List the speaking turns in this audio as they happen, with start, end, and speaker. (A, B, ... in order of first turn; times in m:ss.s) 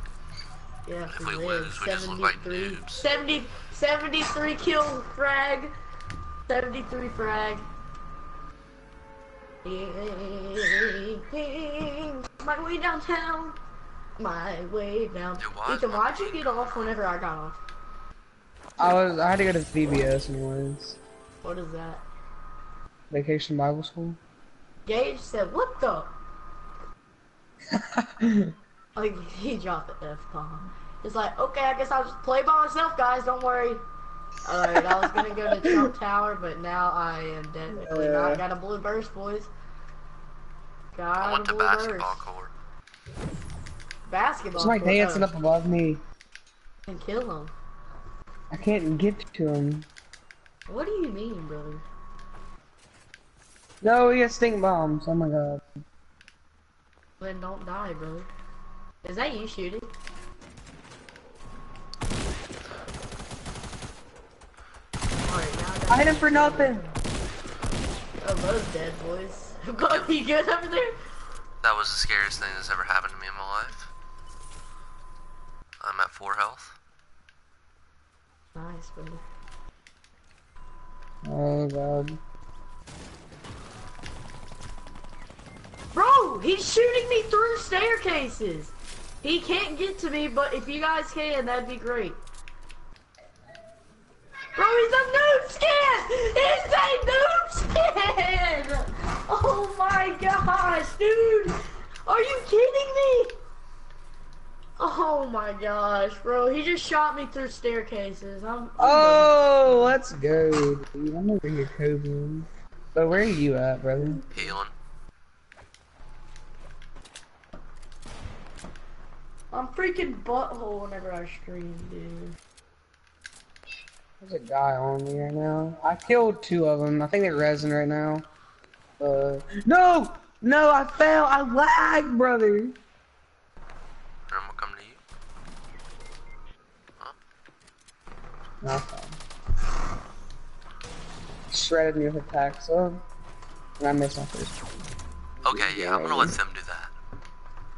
0:00.8-0:05.7 A
0:01.1-0:03.0 B
0:06.5-0:07.6 A
0:09.6-0:13.6 A
0:14.2-0:17.6 A
0:15.4-0:16.7 B
0:18.8-0:21.0 C
0:21.4-0:22.0 A
0:23.1-0:24.2 C
0:24.8-0:26.1 A
0:27.7-0:28.5 C
0:29.0-0:33.8 A
0:34.4-0:39.5 A
0:35.5-0:35.8 C
0:37.7-0:38.4 C
0:40.9-0:42.2 A
0:41.2-0:42.5 B
0:44.1-0:45.3 A
0:44.6-0:46.0 C
0:46.9-0:47.5 A
0:48.5-0:49.9 C
0:50.7-0:51.8 A
0:53.8-0:55.7 C
0:57.2-0:58.3 A
0:59.0-0:59.9 A
1:05.2-1:07.0 A
1:05.9-1:06.8 C
1:08.2-1:11.0 A
1:11.6-1:13.9 B
1:15.8-1:16.8 B
1:18.5-1:19.2 A
1:21.2-1:22.2 C
1:25.9-1:32.2 A
1:34.5-1:43.4 A
1:44.8-1:49.9 A
1:48.8-1:54.2 C
1:54.3-1:54.7 B
1:59.5-2:02.4 A
2:04.2-2:08.2 C
2:09.0-2:12.7 C
2:14.3-2:15.0 B
2:18.6-2:19.2 C
2:21.5-2:23.0 C
2:23.8-2:24.6 C
2:25.4-2:26.9 B
2:25.4-2:26.4 C